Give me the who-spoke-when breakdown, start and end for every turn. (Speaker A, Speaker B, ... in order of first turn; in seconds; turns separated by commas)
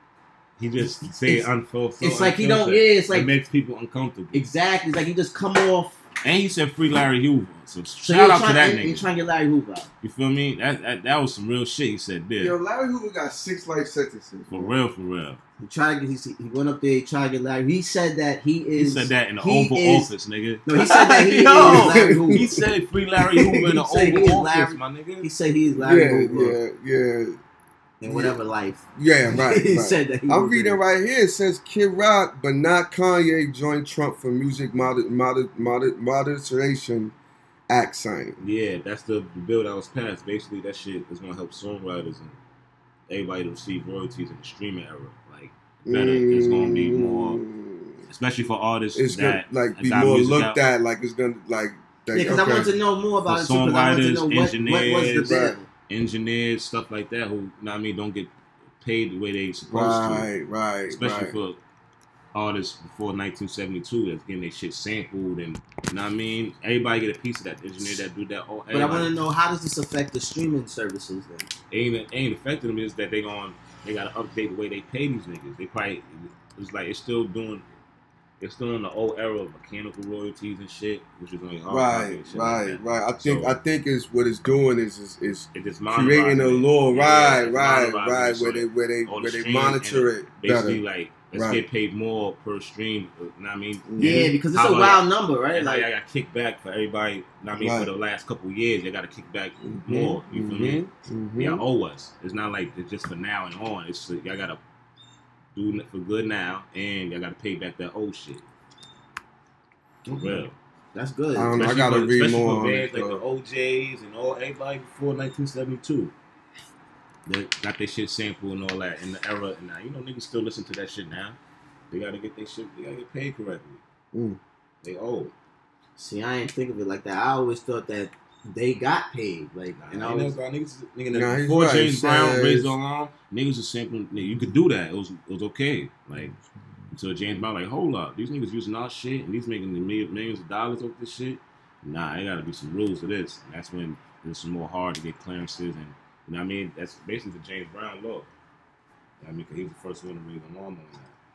Speaker A: 0.6-4.4, Speaker B: 1.0-1.5, Speaker B: 2.0-3.3, Speaker B: 4.3-6.0, Speaker A: 6.2-9.0, Speaker B: 8.0-9.9, Speaker A: 10.0-12.6, Speaker C: 12.4-14.7, Speaker A: 14.5-15.4, Speaker B: 15.6-20.1, Speaker A: 18.8-25.3, Speaker B: 20.7-22.6, Speaker C: 21.6-22.5, Speaker B: 23.2-26.6, Speaker C: 25.8-27.4, Speaker B: 28.0-30.8, Speaker C: 28.1-28.4, Speaker C: 29.0-37.1, Speaker C: 37.7-38.4, Speaker A: 38.4-42.4, Speaker A: 43.1-47.4, Speaker C: 45.9-48.0, Speaker A: 48.1-50.6, Speaker C: 49.0-52.7, Speaker B: 52.1-55.7, Speaker A: 53.3-55.4, Speaker C: 55.2-55.5, Speaker A: 55.9-60.3, Speaker C: 59.7-61.3, Speaker A: 60.9-61.6, Speaker A: 62.3-69.1, Speaker B: 68.7-71.5, Speaker A: 71.7-77.6, Speaker A: 78.4-83.6, Speaker C: 81.7-90.8, Speaker A: 85.5-100.8, Speaker C: 91.3-91.6, Speaker C: 93.9-94.3, Speaker B: 94.0-95.9, Speaker C: 97.6-97.9, Speaker C: 99.6-101.6, Speaker A: 101.4-104.6, Speaker A: 105.5-108.4, Speaker B: 110.0-110.4, Speaker A: 110.1-110.5, Speaker B: 110.9-111.7, Speaker C: 111.3-113.2, Speaker A: 111.5-116.1, Speaker A: 117.3-121.4, Speaker A: 121.9-123.8, Speaker C: 124.1-124.4, Speaker A: 124.8-125.3, Speaker B: 126.0-130.3, Speaker A: 129.8-136.3, Speaker C: 131.1-132.7, Speaker A: 136.9-148.3, Speaker A: 149.2-151.1